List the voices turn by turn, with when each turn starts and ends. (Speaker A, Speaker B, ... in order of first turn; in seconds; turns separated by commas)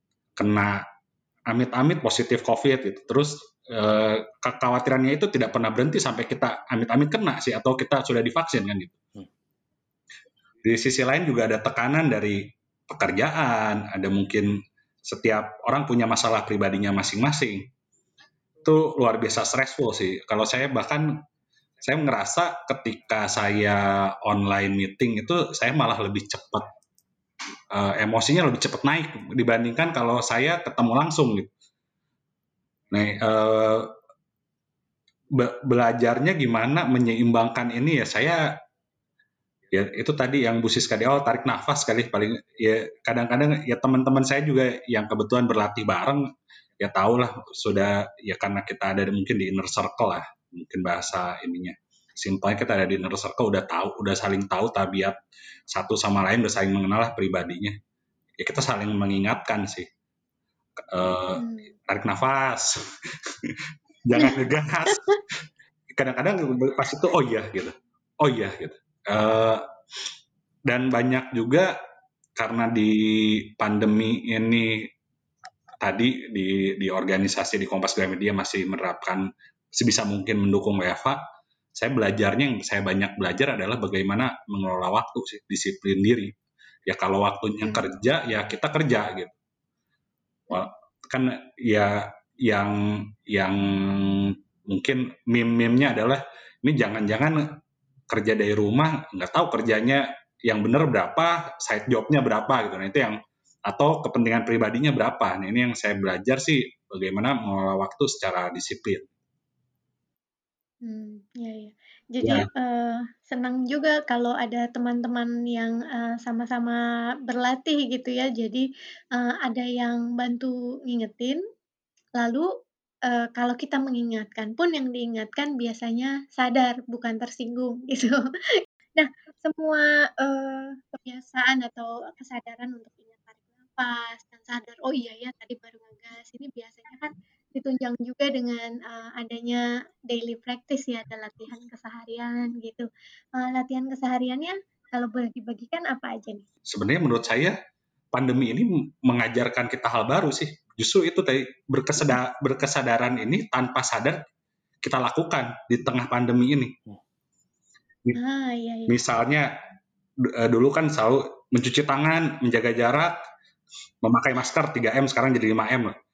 Speaker A: 0.4-0.8, Speaker A: 1.5-9.0, Speaker A: 10.6-14.5, Speaker A: 15.0-17.7, Speaker A: 18.6-21.2, Speaker A: 21.8-26.7, Speaker A: 27.7-31.5, Speaker A: 32.9-33.9, Speaker A: 35.4-38.6, Speaker A: 39.7-46.2, Speaker A: 46.8-55.2, Speaker A: 55.7-57.8, Speaker A: 58.4-59.9, Speaker A: 60.8-65.1, Speaker B: 61.3-61.7, Speaker A: 65.9-69.7, Speaker A: 70.7-71.7, Speaker A: 72.4-74.9, Speaker A: 75.8-81.2, Speaker A: 81.7-86.3, Speaker A: 86.9-89.3, Speaker A: 90.5-97.6, Speaker A: 98.1-109.1, Speaker B: 110.8-121.4, Speaker A: 112.2-112.5, Speaker B: 122.2-122.5, Speaker B: 123.1-146.5, Speaker A: 146.7-147.6, Speaker A: 148.1-154.2, Speaker A: 154.8-156.8, Speaker B: 158.2-159.0, Speaker A: 158.9-159.5, Speaker A: 160.2-163.1, Speaker A: 164.0-165.9